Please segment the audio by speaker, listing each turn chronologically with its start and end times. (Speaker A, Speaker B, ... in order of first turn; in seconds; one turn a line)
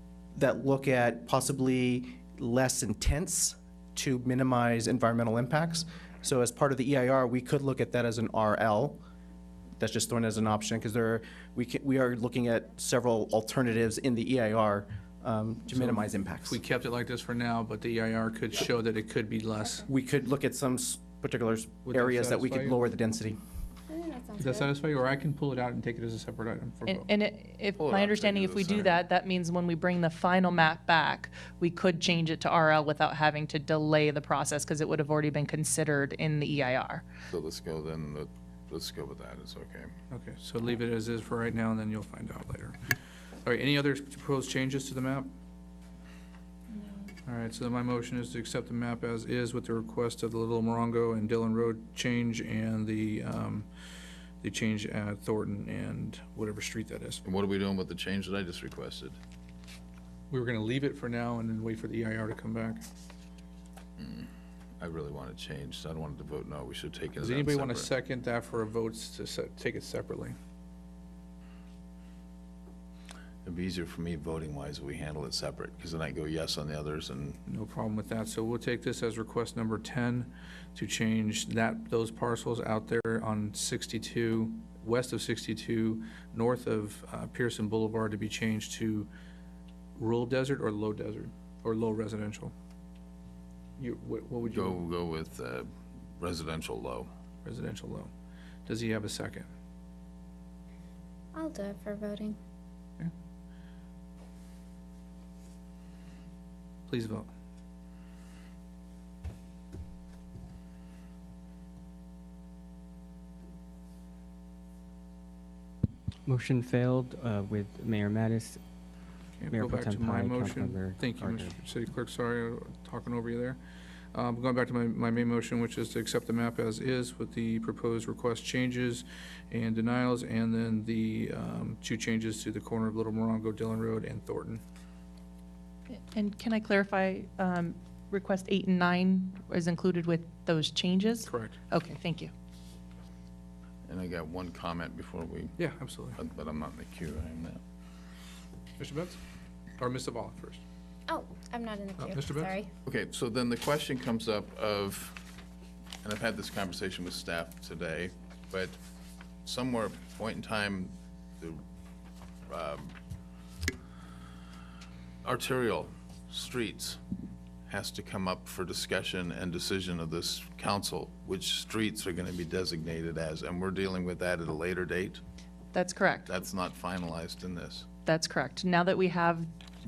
Speaker A: 0.3-9.0
Speaker A: 9.8-16.6
Speaker B: 15.7-19.9
Speaker A: 19.9-23.4
Speaker B: 21.9-22.8
Speaker C: 23.9-24.7
Speaker B: 24.4-27.1
Speaker D: 26.9-37.0
Speaker E: 27.8-28.9
Speaker E: 37.3-39.9
Speaker B: 40.1-42.8
Speaker B: 43.5-45.3
Speaker B: 47.3-53.7
Speaker B: 54.4-57.2
Speaker E: 57.2-59.2
Speaker B: 60.3-62.8
Speaker E: 64.0-67.9
Speaker B: 67.2-70.4
Speaker E: 73.5-77.4
Speaker B: 77.5-89.1
Speaker B: 90.0-92.5
Speaker B: 93.8-94.8
Speaker E: 94.5-97.1
Speaker B: 97.5-98.1
Speaker B: 98.7-99.5
Speaker C: 101.3-102.4
Speaker B: 106.9-107.3
Speaker F: 116.3-118.6
Speaker B: 119.4-123.6
Speaker F: 119.4-121.6
Speaker B: 124.1-134.6
Speaker D: 135.9-142.3
Speaker B: 141.3-141.6
Speaker E: 143.9-145.6
Speaker B: 145.6-146.2
Speaker E: 146.2-147.6
Speaker B: 148.8-149.2
Speaker B: 149.8-150.6
Speaker C: 151.1-152.7
Speaker B: 152.0-152.6
Speaker E: 152.9-155.2
Speaker E: 156.0-158.8
Speaker E: 159.4-161.6
Speaker E: 162.5-162.9
Speaker E: 165.2-167.0
Speaker E: 167.7-175.2
Speaker D: 175.7-176.3
Speaker E: 176.3-177.9
Speaker D: 178.1-179.5